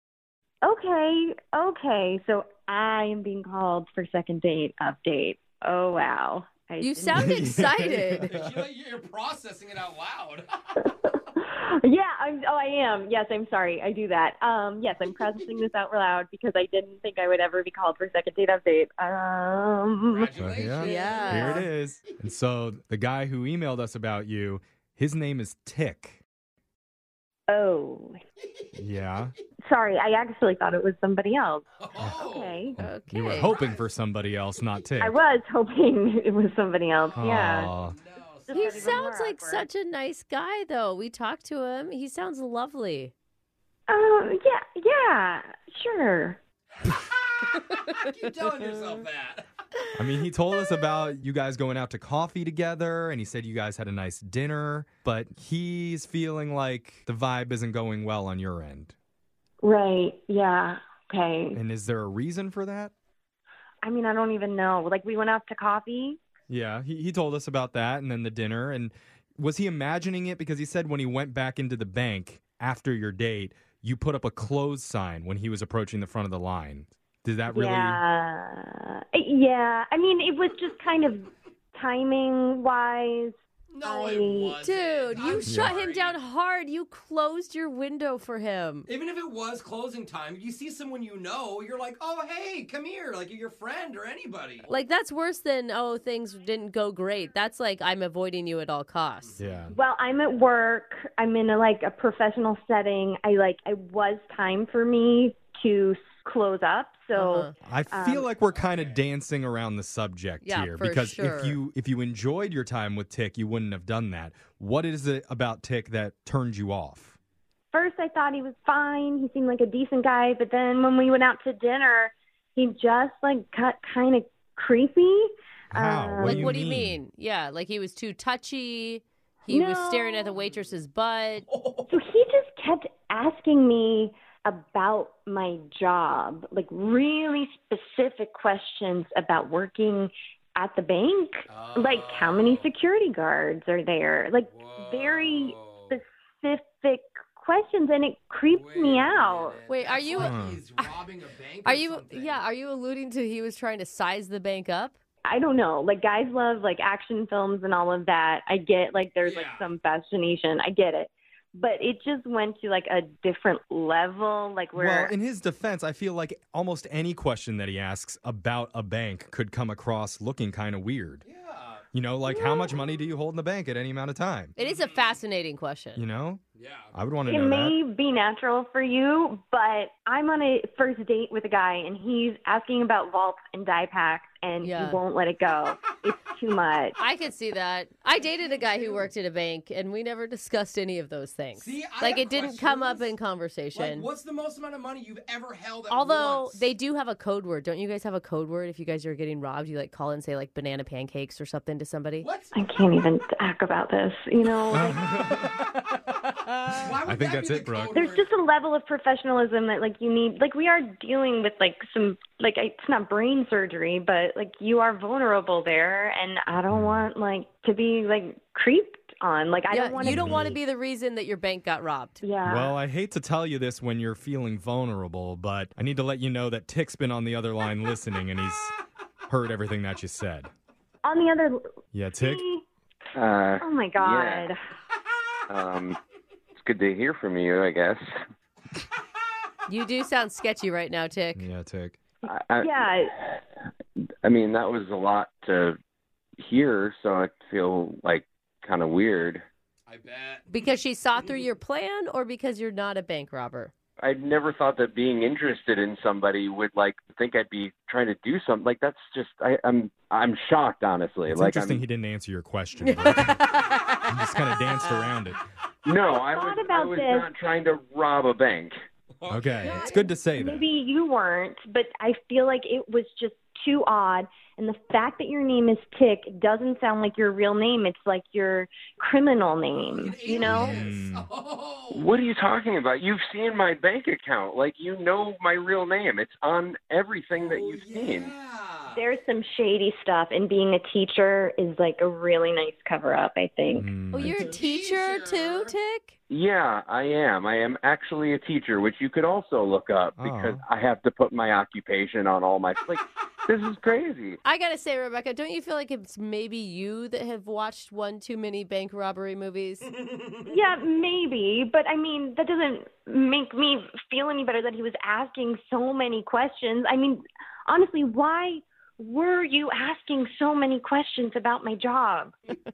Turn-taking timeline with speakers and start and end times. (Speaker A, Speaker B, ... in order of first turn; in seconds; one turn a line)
Speaker A: 0.6-7.3
Speaker B: 6.8-8.3
Speaker C: 7.1-8.5
Speaker D: 8.3-10.6
Speaker A: 10.9-20.3
Speaker D: 20.1-21.6
Speaker C: 20.4-26.2
Speaker B: 20.8-21.7
Speaker A: 27.5-28.2
Speaker C: 28.8-29.3
Speaker A: 29.7-32.8
Speaker D: 31.8-32.7
Speaker C: 32.8-35.2
Speaker B: 32.8-33.5
Speaker D: 33.4-33.9
Speaker A: 35.0-37.7
Speaker D: 37.0-39.0
Speaker C: 37.2-38.0
Speaker A: 38.5-39.7
Speaker B: 38.5-43.1
Speaker A: 43.9-46.4
Speaker D: 46.8-49.5
Speaker C: 50.0-59.0
Speaker A: 59.6-61.6
Speaker C: 61.5-62.9
Speaker A: 63.8-66.2
Speaker C: 66.5-78.0
Speaker A: 77.5-84.6
Speaker D: 83.7-86.2
Speaker B: 84.6-88.9
Speaker C: 85.5-85.8
Speaker D: 88.9-94.7
Speaker B: 94.7-99.4
Speaker D: 99.2-99.5
Speaker C: 99.4-99.8
Speaker A: 99.7-108.3
Speaker B: 107.2-107.5
Speaker C: 107.6-117.2
Speaker D: 108.5-109.0
Speaker B: 110.4-111.6
Speaker A: 117.7-126.5
Speaker C: 125.7-127.0
Speaker B: 126.2-131.5
Speaker A: 129.5-130.3
Speaker D: 131.5-131.9
Speaker A: 131.9-149.6
Speaker D: 141.5-142.7
Speaker D: 144.5-146.0
Speaker D: 148.5-152.4
Speaker B: 149.7-150.4
Speaker C: 150.1-150.6
Speaker B: 151.7-154.9
Speaker A: 155.3-165.1
Speaker D: 159.2-159.7
Speaker C: 164.8-171.2
Speaker D: 171.2-171.8
Speaker C: 171.9-174.6
Speaker A: 172.3-172.8
Speaker B: 174.6-176.0
Speaker D: 174.6-175.2
Speaker C: 176.0-176.4
Speaker D: 176.6-176.9
Speaker C: 176.9-177.8
Speaker A: 177.3-187.0
Speaker B: 184.6-185.0
Speaker B: 187.0-194.1
Speaker D: 188.2-189.1
Speaker D: 191.6-193.1
Speaker D: 193.7-196.7
Speaker B: 195.9-202.3
Speaker D: 202.2-202.6
Speaker A: 202.5-205.1
Speaker C: 204.7-205.6
Speaker D: 206.8-208.3
Speaker C: 206.9-208.0
Speaker A: 207.9-220.5
Speaker C: 216.7-217.1
Speaker B: 219.7-222.2
Speaker C: 220.0-220.6
Speaker A: 222.2-222.8
Speaker C: 222.5-228.7
Speaker C: 229.3-230.5
Speaker A: 231.1-232.6
Speaker C: 231.9-232.4
Speaker E: 233.2-234.5
Speaker A: 233.6-234.6
Speaker E: 235.5-236.0
Speaker E: 236.6-238.1
Speaker B: 239.7-241.5
Speaker C: 241.4-242.0
Speaker A: 242.2-243.2
Speaker E: 242.3-243.4
Speaker E: 244.2-245.8
Speaker E: 246.4-249.4
Speaker D: 249.9-250.5
Speaker B: 250.5-253.7
Speaker E: 254.0-261.8
Speaker C: 261.3-263.6
Speaker B: 262.8-265.1
Speaker C: 264.1-265.4
Speaker E: 265.9-268.8
Speaker A: 266.1-267.3
Speaker D: 269.2-269.9
Speaker C: 269.3-270.6
Speaker A: 270.3-280.9
Speaker D: 279.8-282.1
Speaker C: 280.4-281.3
Speaker E: 281.9-288.3
Speaker D: 287.3-289.0
Speaker A: 288.9-293.9
Speaker C: 293.8-294.4
Speaker B: 294.1-296.2
Speaker D: 294.4-295.7
Speaker E: 296.3-304.4
Speaker C: 300.2-300.6
Speaker B: 304.4-309.9
Speaker D: 310.0-310.4
Speaker A: 310.4-322.4